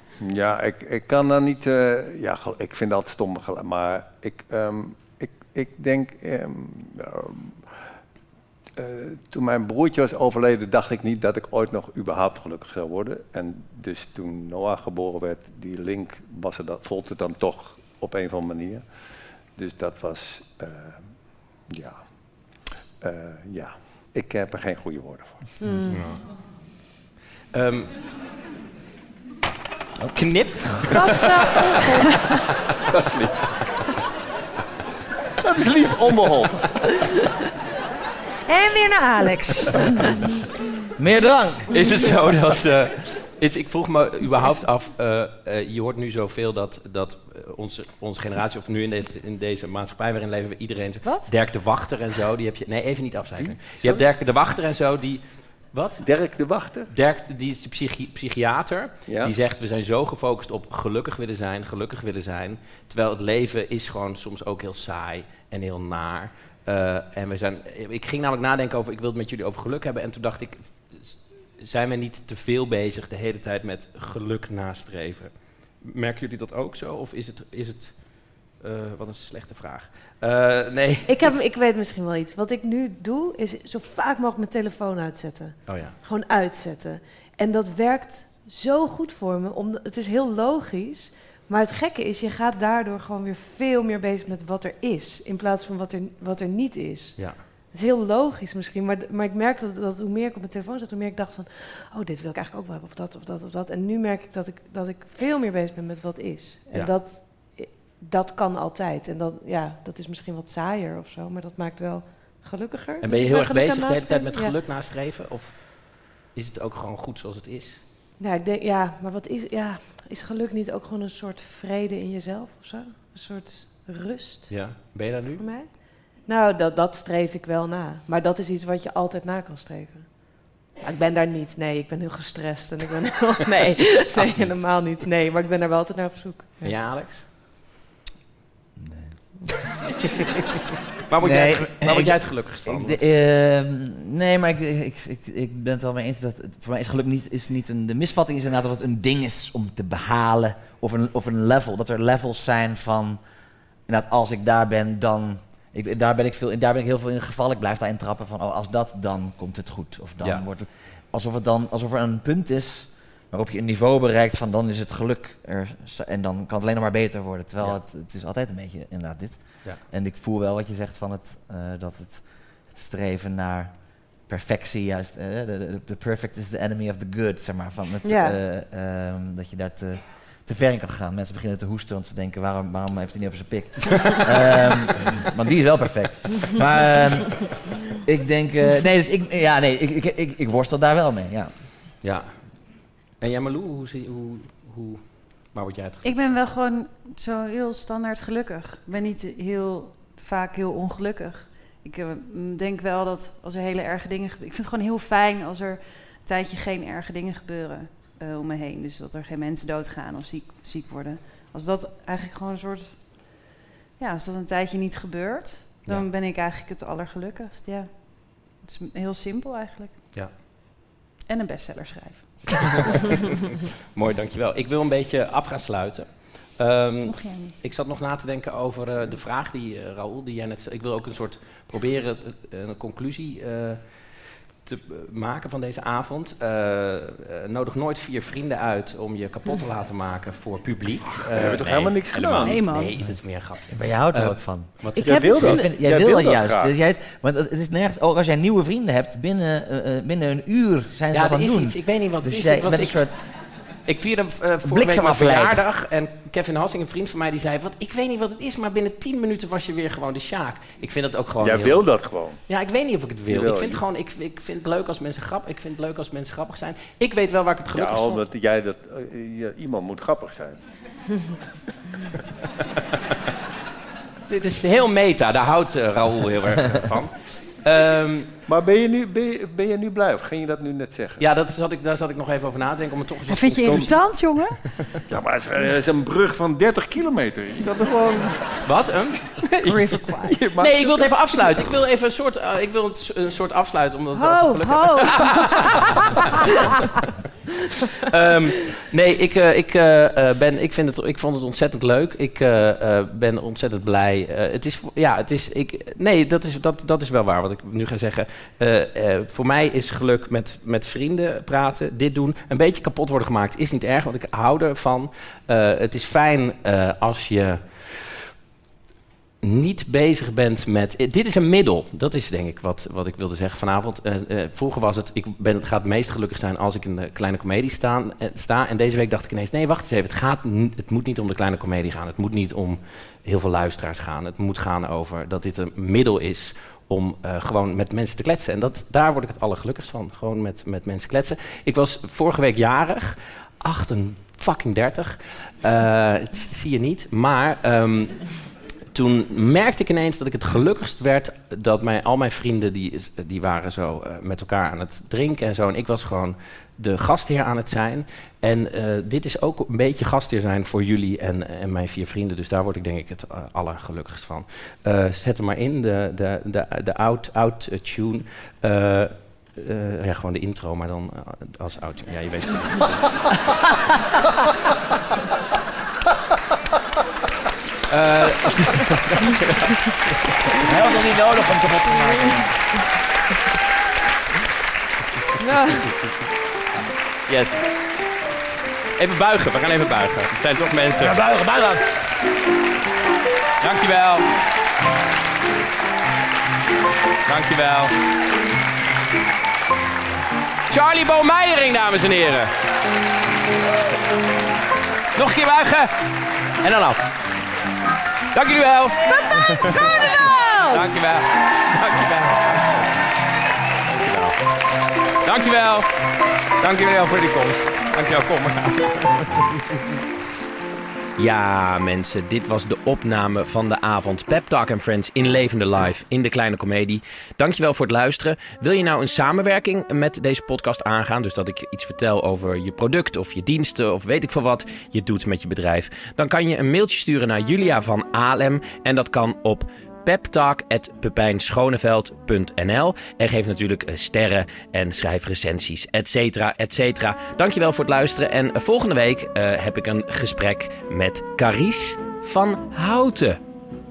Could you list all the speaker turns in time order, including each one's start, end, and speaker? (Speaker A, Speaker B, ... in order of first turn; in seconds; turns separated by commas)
Speaker A: 0.2-7.6, Speaker A: 8.8-18.9, Speaker A: 19.6-21.0, Speaker A: 21.6-25.4, Speaker B: 25.6-26.0, Speaker C: 25.9-26.2, Speaker C: 27.5-27.9, Speaker C: 30.0-31.2, Speaker D: 30.9-32.3, Speaker A: 32.9-33.5, Speaker A: 35.4-36.8, Speaker D: 38.5-39.8, Speaker E: 41.0-41.7, Speaker C: 41.7-55.2, Speaker D: 51.0-51.3, Speaker A: 53.4-54.0, Speaker C: 55.7-56.0, Speaker A: 56.0-56.9, Speaker C: 56.9-81.3, Speaker A: 59.1-59.3, Speaker B: 81.1-114.6, Speaker C: 85.7-86.0, Speaker C: 113.0-117.8, Speaker B: 118.2-136.7, Speaker C: 124.5-125.5, Speaker C: 136.6-137.3, Speaker E: 138.8-139.2, Speaker C: 141.1-143.1, Speaker E: 141.2-153.2, Speaker E: 153.9-191.6, Speaker B: 178.0-178.4, Speaker C: 192.0-192.6, Speaker C: 193.2-196.3, Speaker D: 196.0-213.4, Speaker D: 214.0-220.1, Speaker D: 221.3-222.8, Speaker C: 223.9-233.8, Speaker D: 227.1-227.6, Speaker C: 234.6-245.6, Speaker A: 241.2-242.6, Speaker D: 242.4-243.0, Speaker E: 243.7-253.3, Speaker A: 244.9-246.7, Speaker B: 245.0-245.7, Speaker C: 251.1-253.3, Speaker C: 253.9-268.2, Speaker E: 254.7-255.6, Speaker A: 261.4-262.4, Speaker A: 263.3-263.8, Speaker A: 267.7-270.6, Speaker C: 274.3-278.3, Speaker A: 278.5-281.2, Speaker C: 281.2-284.1, Speaker D: 283.3-285.0, Speaker A: 285.1-288.6, Speaker C: 288.6-289.5, Speaker D: 289.6-290.4, Speaker A: 289.6-291.1, Speaker C: 290.6-295.9, Speaker B: 294.2-295.8, Speaker C: 298.0-318.3, Speaker C: 319.4-348.4, Speaker C: 348.9-373.1, Speaker C: 377.9-379.8, Speaker E: 380.6-382.7, Speaker B: 385.4-385.8, Speaker C: 387.3-387.7, Speaker C: 389.0-391.3, Speaker E: 391.1-391.8, Speaker C: 393.6-394.3, Speaker C: 397.3-397.9, Speaker C: 400.7-402.5, Speaker C: 405.1-405.9, Speaker C: 406.6-407.1, Speaker C: 408.3-412.8, Speaker B: 409.1-411.0, Speaker C: 413.9-414.4, Speaker C: 415.2-415.9, Speaker C: 416.6-419.8, Speaker C: 421.2-453.4